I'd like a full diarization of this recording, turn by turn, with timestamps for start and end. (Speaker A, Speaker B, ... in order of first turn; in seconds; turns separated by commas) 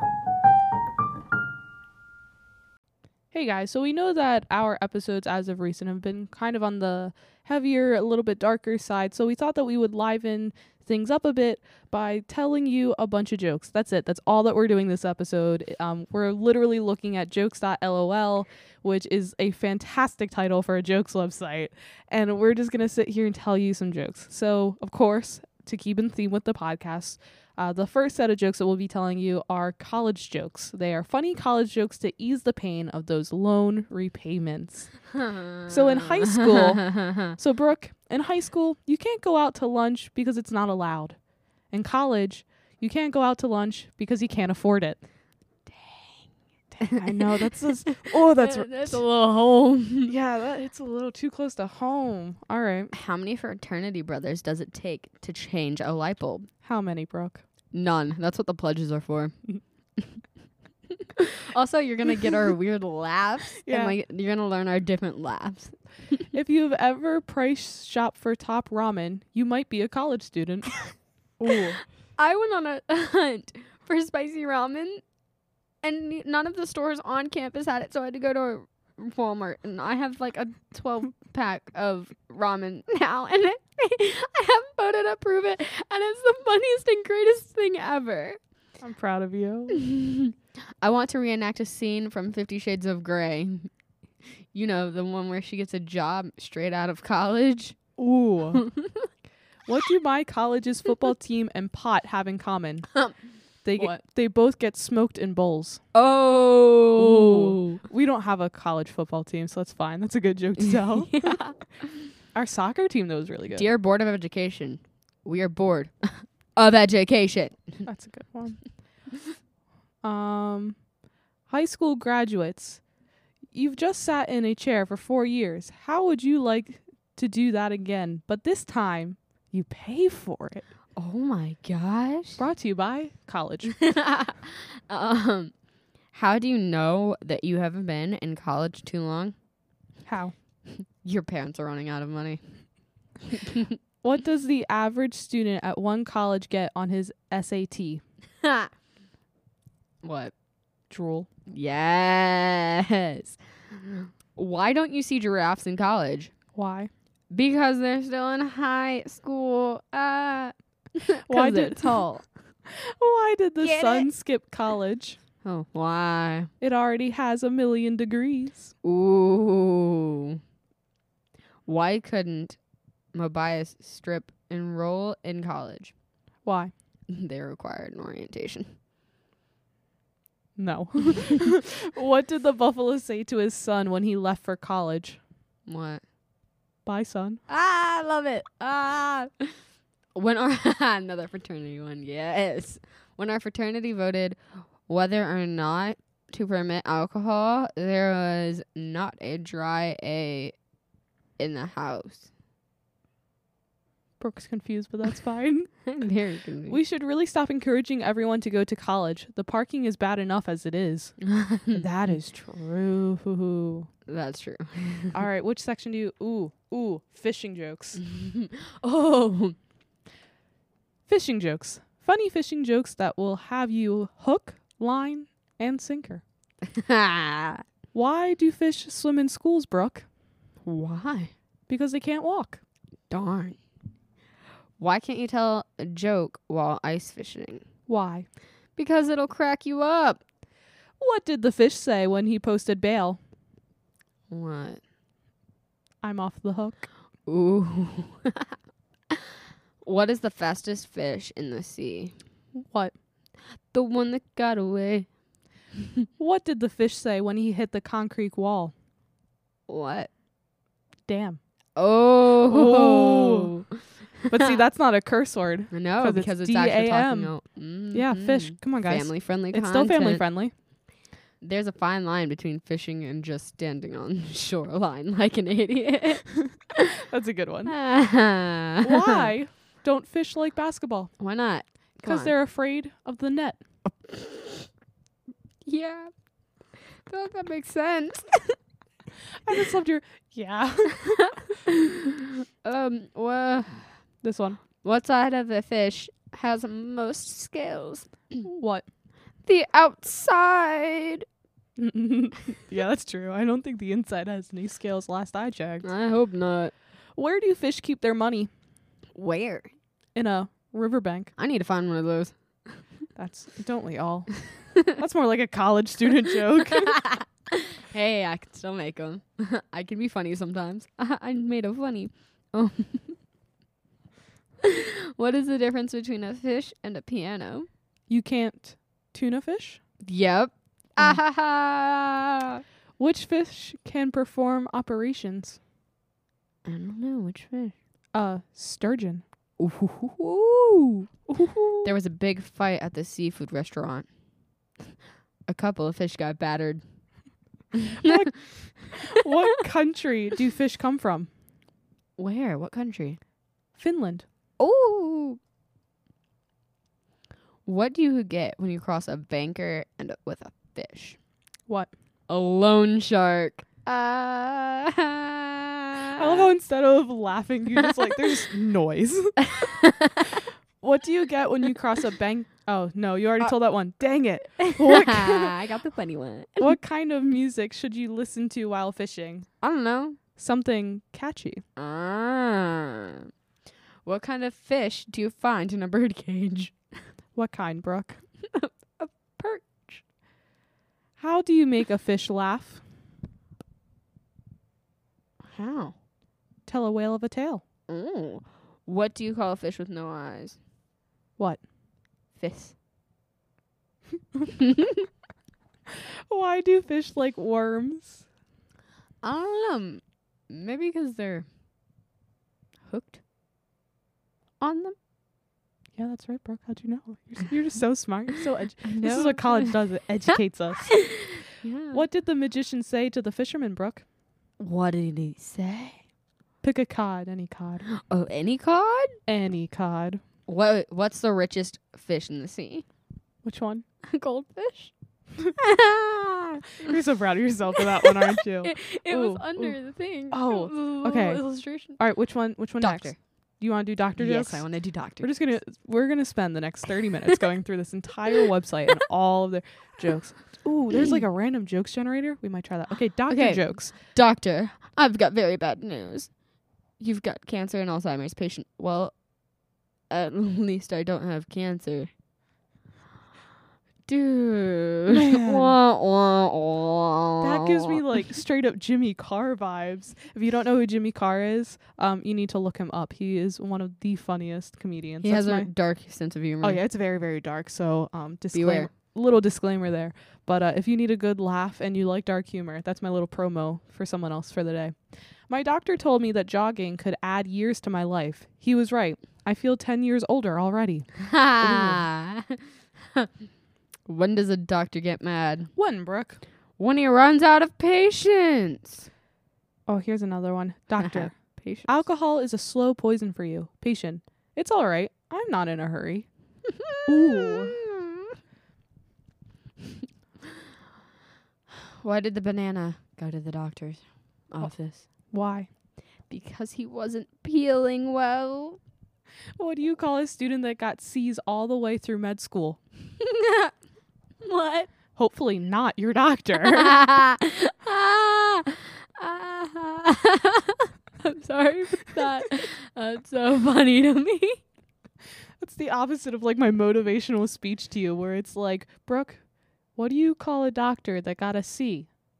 Speaker A: 3.3-35.0, Speaker B: 35.1-37.3, Speaker A: 35.7-41.2, Speaker A: 41.7-45.0, Speaker A: 46.7-49.0, Speaker B: 47.9-50.1, Speaker A: 50.1-52.9, Speaker B: 52.9-56.5, Speaker A: 56.6-57.4, Speaker B: 57.7-59.3, Speaker B: 61.2-66.2, Speaker A: 63.6-64.0, Speaker A: 66.3-70.8, Speaker A: 71.4-71.8, Speaker B: 72.2-75.0, Speaker B: 75.8-88.4, Speaker A: 88.8-89.8, Speaker B: 89.7-93.7, Speaker B: 94.5-97.8, Speaker A: 98.0-98.6, Speaker B: 98.6-99.1, Speaker A: 99.7-102.9, Speaker A: 103.6-105.8, Speaker B: 105.9-107.8, Speaker A: 107.0-111.4, Speaker B: 110.8-111.6, Speaker A: 112.3-113.7, Speaker B: 113.5-117.9, Speaker A: 117.8-118.6, Speaker A: 120.0-120.8, Speaker A: 121.5-122.8, Speaker A: 123.5-130.7, Speaker B: 131.0-132.4, Speaker A: 132.4-133.7, Speaker B: 133.7-135.5, Speaker B: 136.1-139.3, Speaker A: 140.1-140.3, Speaker B: 140.7-142.4, Speaker B: 143.3-143.8, Speaker A: 144.0-148.0, Speaker B: 148.4-148.7, Speaker B: 150.0-150.3, Speaker A: 150.9-151.3, Speaker B: 151.5-156.3, Speaker A: 156.6-156.9, Speaker B: 157.3-162.2, Speaker A: 161.3-162.1, Speaker A: 162.7-165.2, Speaker B: 163.6-164.1, Speaker B: 165.4-166.5, Speaker A: 166.6-168.7, Speaker B: 168.8-170.4, Speaker B: 171.7-172.6, Speaker B: 173.1-175.9, Speaker A: 176.4-176.7, Speaker B: 177.1-178.7, Speaker A: 180.6-185.2, Speaker B: 185.7-186.0, Speaker A: 186.9-187.4, Speaker B: 187.5-189.6, Speaker B: 190.2-200.6, Speaker B: 201.4-202.3, Speaker A: 204.2-205.8, Speaker B: 205.9-206.8, Speaker A: 206.7-213.9, Speaker B: 211.3-211.8, Speaker B: 214.1-215.2, Speaker A: 215.1-218.0, Speaker B: 218.0-219.6, Speaker A: 221.1-226.2, Speaker B: 226.7-227.6, Speaker A: 227.9-230.1, Speaker B: 230.7-231.3, Speaker A: 231.7-232.6, Speaker B: 233.1-233.6, Speaker B: 234.8-237.7, Speaker A: 237.9-238.3, Speaker B: 238.8-240.2, Speaker A: 241.0-243.2, Speaker B: 244.3-244.8, Speaker A: 246.0-246.9, Speaker B: 247.3-248.6, Speaker B: 249.8-252.2, Speaker A: 252.6-252.9, Speaker B: 253.7-255.1, Speaker A: 256.2-258.7, Speaker B: 259.7-260.1, Speaker A: 261.1-261.4, Speaker B: 261.8-263.8, Speaker A: 262.4-263.5, Speaker A: 264.3-267.4, Speaker B: 265.7-270.2, Speaker A: 267.9-270.5, Speaker B: 271.4-276.3, Speaker A: 277.0-277.7, Speaker B: 277.7-279.2, Speaker A: 278.8-281.1, Speaker B: 281.2-282.3, Speaker A: 282.0-283.6, Speaker B: 284.1-284.7, Speaker B: 285.6-286.1, Speaker B: 287.1-288.6, Speaker A: 289.4-291.2, Speaker B: 291.1-294.0, Speaker A: 294.2-294.6, Speaker B: 294.8-298.4, Speaker A: 298.4-298.8, Speaker B: 299.4-301.2, Speaker A: 301.8-305.9, Speaker B: 305.8-306.7, Speaker A: 307.2-308.5, Speaker B: 309.1-309.7, Speaker A: 310.1-311.3, Speaker B: 311.4-312.8, Speaker A: 313.2-314.3, Speaker A: 314.8-317.0, Speaker B: 316.8-323.2, Speaker B: 324.6-327.7, Speaker A: 328.1-329.8, Speaker B: 330.0-332.6, Speaker A: 333.0-335.6, Speaker B: 336.7-337.8, Speaker A: 338.1-339.2, Speaker B: 339.6-341.1, Speaker A: 341.3-341.9, Speaker B: 341.8-344.1, Speaker B: 345.5-346.8, Speaker B: 347.7-348.2, Speaker A: 348.0-351.3, Speaker B: 352.2-353.2, Speaker A: 353.8-354.2, Speaker B: 354.6-355.4, Speaker B: 357.7-361.2, Speaker B: 362.3-366.5, Speaker A: 366.2-369.7, Speaker B: 369.4-370.4, Speaker A: 370.8-375.6, Speaker B: 374.6-376.7, Speaker A: 376.6-379.4, Speaker B: 379.6-380.2, Speaker A: 380.4-381.6, Speaker B: 381.8-383.3, Speaker B: 384.1-386.8, Speaker A: 387.4-388.2, Speaker B: 388.5-390.0, Speaker A: 391.2-392.8, Speaker B: 395.4-395.9, Speaker A: 396.7-397.6, Speaker B: 397.9-400.6, Speaker B: 402.4-402.7, Speaker B: 404.6-404.9, Speaker A: 406.3-408.2, Speaker B: 409.2-411.4, Speaker B: 412.9-413.2, Speaker B: 414.6-414.9, Speaker A: 416.0-421.1, Speaker B: 418.8-422.0, Speaker A: 421.9-424.0, Speaker B: 424.6-426.0, Speaker A: 426.6-427.9, Speaker B: 428.0-429.1, Speaker A: 429.3-430.2, Speaker B: 430.5-432.9, Speaker A: 433.4-433.8, Speaker B: 434.1-434.9, Speaker B: 435.6-436.9, Speaker A: 436.8-439.8, Speaker B: 437.8-442.0, Speaker A: 440.3-441.4, Speaker A: 442.0-444.7, Speaker B: 442.8-443.2, Speaker B: 444.2-445.6, Speaker A: 445.2-453.9, Speaker B: 453.3-456.3, Speaker B: 457.0-459.1, Speaker B: 460.1-462.1, Speaker B: 464.1-468.0, Speaker A: 465.1-465.8, Speaker A: 467.4-475.7, Speaker B: 475.2-476.8, Speaker A: 476.6-484.9, Speaker B: 478.5-478.9, Speaker A: 485.5-492.0, Speaker B: 491.3-492.6, Speaker B: 494.1-495.7, Speaker A: 495.8-496.4, Speaker B: 496.8-499.1, Speaker A: 499.9-501.3, Speaker B: 501.0-502.0, Speaker A: 501.9-506.3, Speaker B: 506.8-508.4, Speaker A: 507.1-507.8, Speaker B: 511.9-515.1, Speaker A: 515.3-515.7, Speaker B: 516.3-518.8, Speaker A: 519.6-522.8, Speaker B: 523.2-523.7, Speaker B: 524.4-524.9, Speaker A: 525.1-527.0, Speaker B: 526.6-534.6, Speaker A: 535.6-539.4, Speaker A: 540.0-542.1